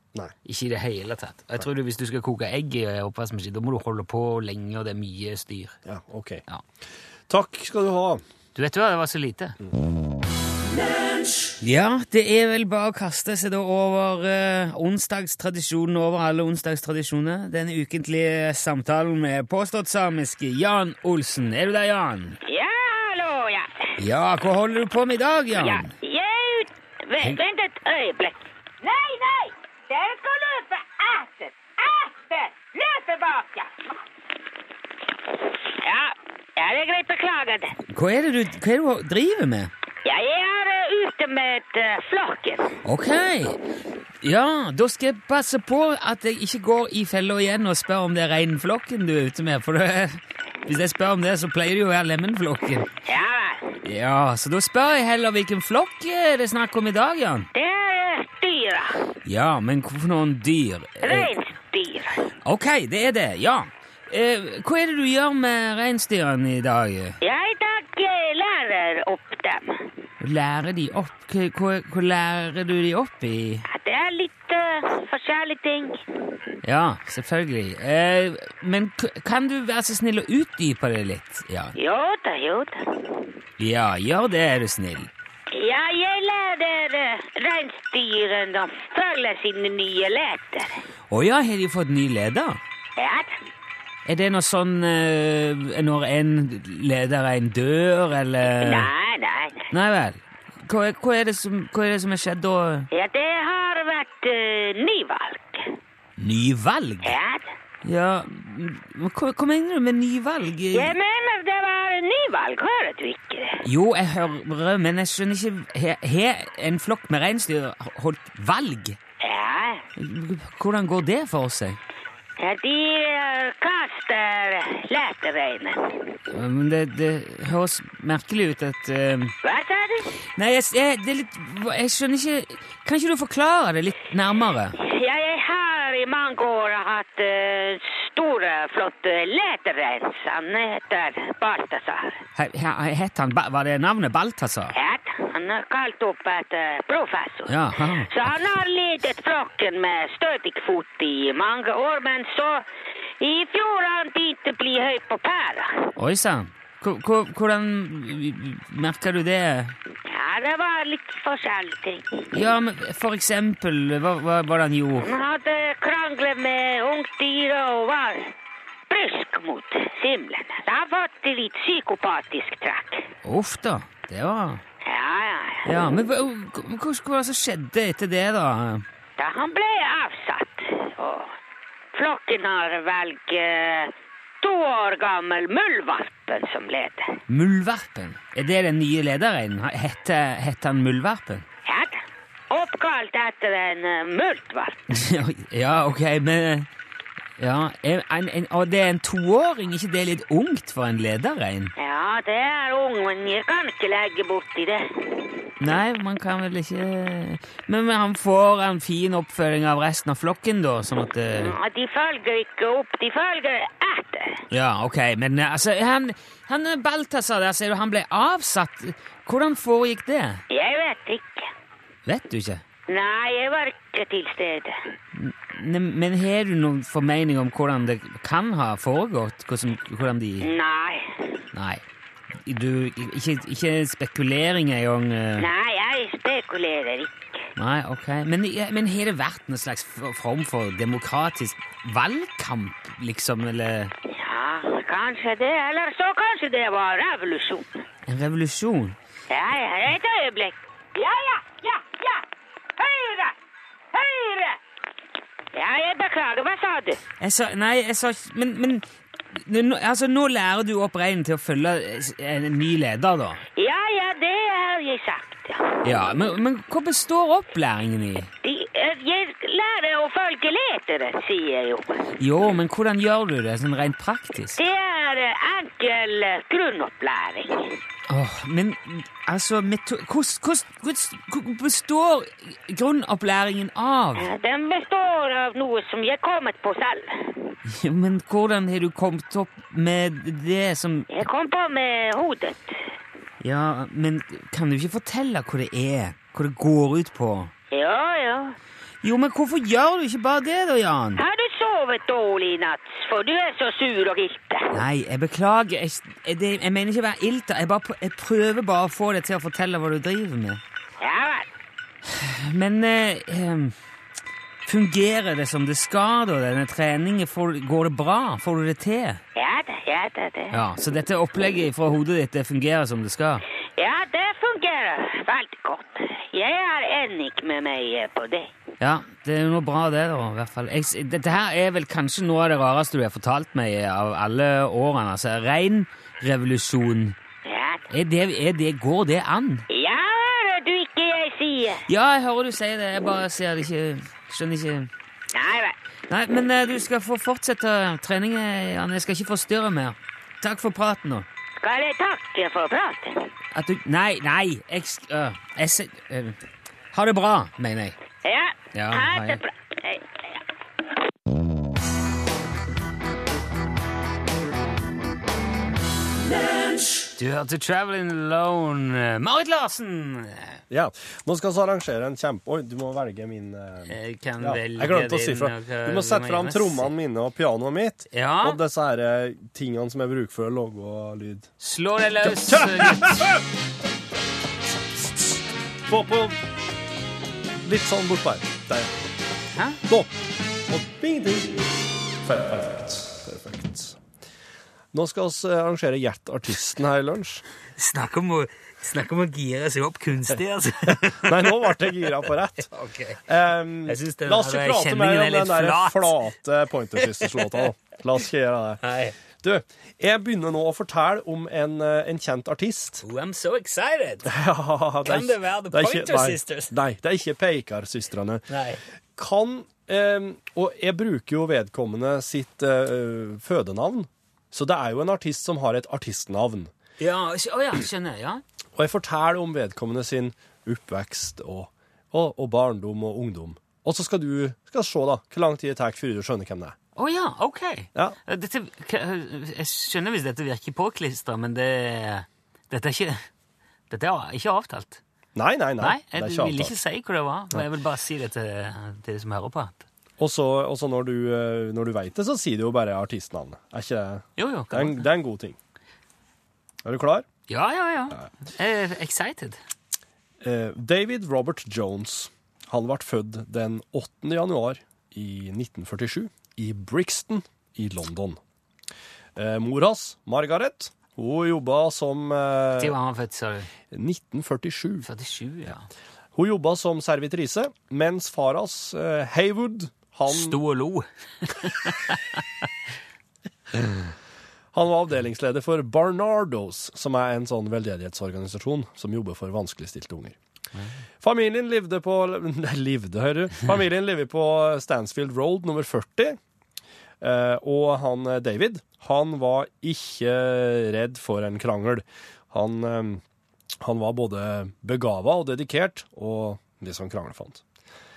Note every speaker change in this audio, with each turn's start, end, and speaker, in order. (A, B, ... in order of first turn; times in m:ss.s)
0:00.4-0:05.8 A
0:05.8-0:06.4 B
0:07.3-0:08.2 B
0:08.6-0:09.6 A
0:11.6-0:22.4 A
0:22.4-0:24.0 C
0:24.0-0:25.9 A
0:25.6-0:33.7 C
0:35.7-0:37.7 C
0:37.9-0:39.7 A
0:40.0-0:42.7 C
0:42.8-0:43.6 A
0:44.2-0:52.9 A
0:53.1-0:53.8 C
0:53.8-0:57.5 A
0:57.5-0:59.0 C
0:59.2-1:01.3 A
1:01.0-1:02.2 C
1:02.4-1:07.2 A
1:07.2-1:09.9 C
1:10.2-1:13.7 A
1:13.7-1:16.0 C
1:16.6-1:21.8 A
1:21.8-1:22.9 C
1:23.6-1:25.1 A
1:25.5-1:30.8 C
1:31.1-1:32.6 A
1:33.0-1:33.3 C
1:34.1-1:38.9 A
1:38.6-1:39.6 C
1:39.7-1:42.9 A
1:42.9-1:45.7 C
1:46.2-1:47.1 A
1:47.0-1:47.5 C
1:47.8-1:51.0 A
1:50.7-1:53.6 C
1:53.6-1:59.0 A
1:59.2-1:59.8 C
2:00.0-2:01.8 A
2:02.4-2:06.1 C
2:06.3-2:09.3 A
2:09.4-2:10.1 C
2:10.4-2:14.8 A
2:14.8-2:22.2 C
2:22.4-2:24.8 A
2:24.8-2:27.5 C
2:27.5-2:28.3 A
2:28.1-2:32.6 C
2:33.2-2:35.9 C
2:36.0-2:39.8 A
2:40.1-2:42.3 C
2:42.3-2:45.1 A
2:45.0-2:48.3 C
2:48.9-2:53.1 C
2:53.2-2:54.6 A
2:54.8-2:55.7 C
2:55.6-2:58.8 A
2:59.2-3:01.3 C
3:02.0-3:07.2 C
3:07.3-3:11.4 A
3:11.6-3:14.8 C
3:14.9-3:16.7 A
3:17.4-3:21.7 A
3:21.8-3:25.3 C
3:25.6-3:31.5 A
3:31.4-3:34.4 C
3:34.5-3:40.4 A
3:40.5-3:41.5 C
3:42.1-3:42.6 A
3:42.9-3:44.8 C
3:45.1-3:50.5 A
3:50.4-3:51.3 C
3:51.5-3:51.8 A
3:52.4-3:55.5 A
3:55.4-3:57.4 C
3:57.6-4:03.9 A
4:04.1-4:07.8 C
4:08.1-4:09.0 A
4:09.3-4:12.2 C
4:12.8-4:13.4 C
4:13.9-4:14.6 C
4:15.5-4:17.0 C
4:17.2-4:23.4 A
4:23.6-4:26.1 C
4:25.8-4:28.3 A
4:28.4-4:32.0 C
4:32.2-4:34.6 A
4:34.6-4:37.8 C
4:38.1-4:44.3 A
4:44.2-4:47.6 C
4:47.6-4:51.2 A
4:51.1-4:52.8 C
4:53.4-4:57.5 A
4:57.7-4:58.6 C
4:59.0-5:01.2 A
5:01.2-5:04.7 C
5:04.7-5:10.6 A
5:11.0-5:11.5 C
5:12.0-5:13.8 A
5:14.7-5:19.2 A
5:19.4-5:20.6 C
5:20.5-5:23.4 A
5:23.8-5:28.5 C
5:28.8-5:37.2 A
5:37.4-5:37.8 C
5:37.9-5:39.6 A
5:39.7-5:41.8 C
5:41.9-5:44.9 A
5:45.3-5:45.8 C
5:46.1-5:51.3 A
5:51.6-5:53.3 C
5:53.5-5:56.4 A
5:56.9-5:58.0 A
5:58.2-6:00.3 C
5:58.7-5:59.4 A
6:07.2-6:10.6 A
6:10.7-6:21.5 B
6:13.9-6:16.9 A
6:18.1-6:18.6 A
6:21.6-6:23.3 A
6:22.2-6:23.4 B
6:25.9-6:26.4 B
6:27.6-6:28.9 B
6:29.6-6:29.8 A
6:30.7-6:34.0 B
6:34.9-6:37.4 B
6:37.8-6:42.0 A
6:40.9-6:42.7 B
6:42.7-6:43.2 A
6:43.3-6:48.8 B
6:43.9-6:46.2 A
6:47.2-6:47.4 A
6:48.8-6:49.2 A
6:49.4-6:53.0 B
6:53.0-6:54.3 A
6:54.3-6:58.5 B
6:55.0-6:56.8 A
6:58.5-6:58.8 A
6:59.2-7:06.7 B
7:07.0-7:08.4 A
7:08.8-7:16.8 B
7:17.0-7:23.3 A
7:23.9-7:25.0 A
7:25.4-7:26.8 B
7:25.8-7:29.8 A
7:30.2-7:35.6 B
7:34.4-7:35.1 A
7:36.8-7:37.3 B
7:37.5-7:39.6 A
7:40.4-7:48.4 B
7:49.4-7:53.0 B
7:52.8-7:53.7 A
7:53.9-7:55.1 B
7:55.0-7:55.9 A
7:56.4-8:00.6 B
8:00.3-8:02.2 A
8:04.7-8:10.4 B
8:11.2-8:16.4 B
8:17.2-8:23.2 B
8:23.8-8:27.6 B